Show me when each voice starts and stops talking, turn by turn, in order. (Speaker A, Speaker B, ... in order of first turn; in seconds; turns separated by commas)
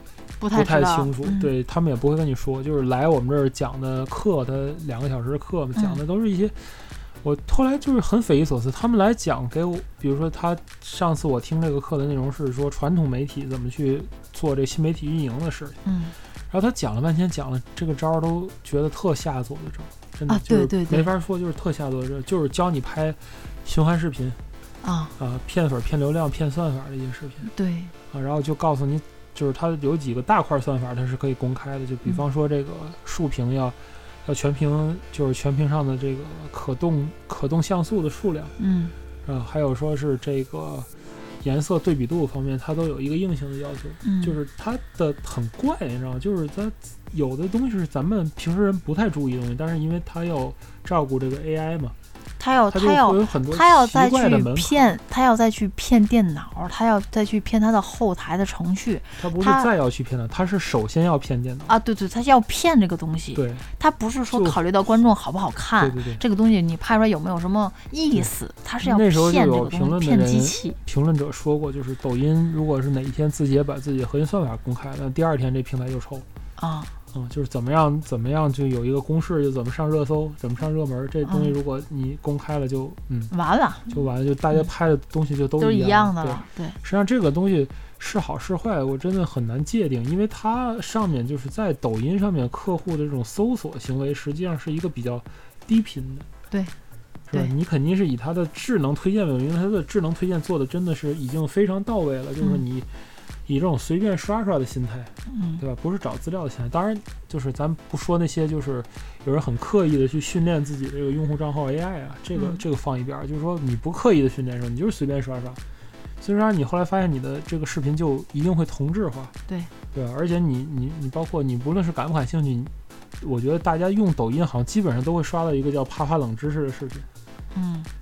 Speaker A: 0.4-1.5, Speaker B: 0.5-15.8, Speaker A: 15.8-16.1, Speaker B: 16.5-24.4, Speaker A: 20.3-21.1, Speaker A: 24.8-25.1, Speaker B: 25.2-27.5, Speaker A: 27.5-27.9, Speaker B: 28.1-38.5, Speaker A: 38.6-38.9, Speaker B: 39.2-40.9, Speaker B: 41.4-51.9, Speaker A: 44.0-44.4, Speaker A: 52.4-59.7, Speaker B: 52.7-55.0, Speaker B: 59.2-61.7, Speaker A: 61.7-70.8, Speaker B: 63.3-63.6, Speaker B: 64.3-64.6, Speaker B: 65.8-66.2, Speaker B: 68.8-76.2, Speaker A: 76.6-76.9, Speaker B: 77.1-83.3, Speaker A: 81.2-81.5, Speaker A: 83.3-84.0, Speaker B: 83.9-96.3, Speaker A: 85.6-86.8, Speaker B: 97.3-102.9, Speaker B: 103.5-115.6, Speaker A: 105.3-105.6, Speaker A: 112.3-112.6, Speaker B: 116.2-119.3, Speaker B: 119.9-127.1, Speaker A: 127.5-127.9